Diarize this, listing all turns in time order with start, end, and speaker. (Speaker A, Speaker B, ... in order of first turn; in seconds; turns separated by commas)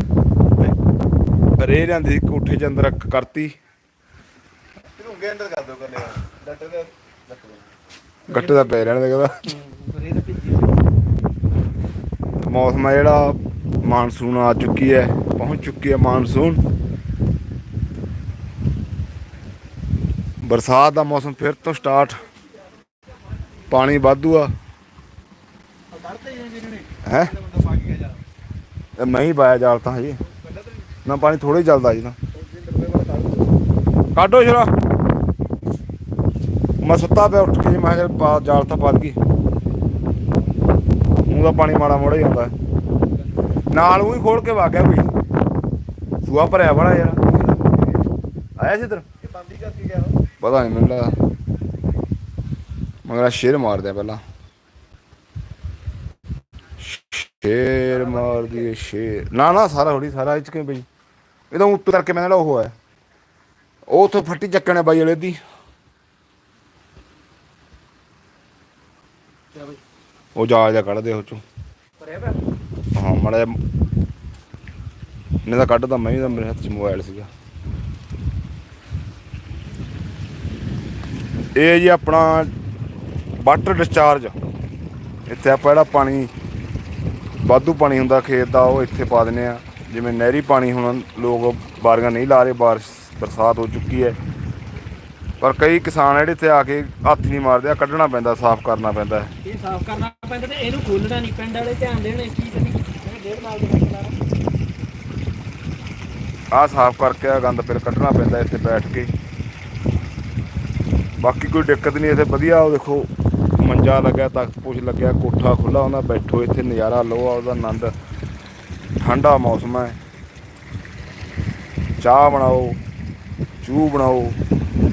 Speaker A: 1.6-3.5, Speaker B: 5.0-7.6, Speaker A: 8.3-9.6, Speaker C: 9.5-10.7, Speaker A: 12.4-16.6, Speaker A: 20.4-22.2, Speaker A: 23.7-24.5, Speaker C: 26.4-26.8, Speaker A: 27.0-27.6, Speaker A: 29.0-30.2, Speaker A: 31.1-32.2, Speaker A: 34.1-34.7, Speaker A: 36.8-39.2, Speaker A: 41.3-42.5, Speaker A: 43.7-45.1, Speaker A: 46.2-47.6, Speaker A: 48.6-49.1, Speaker A: 50.4-51.2, Speaker A: 53.0-54.2, Speaker A: 56.8-60.9, Speaker A: 61.5-62.7, Speaker A: 63.9-65.4, Speaker A: 70.4-71.4, Speaker A: 73.0-73.6, Speaker A: 75.5-77.3, Speaker A: 81.5-82.5, Speaker A: 83.4-84.4, Speaker A: 85.3-86.3, Speaker A: 87.4-94.2, Speaker A: 95.4-99.3, Speaker C: 99.4-104.2, Speaker A: 106.5-109.1, Speaker A: 111.2-117.9, Speaker A: 119.0-120.0, Speaker A: 122.0-122.8, Speaker A: 123.6-124.4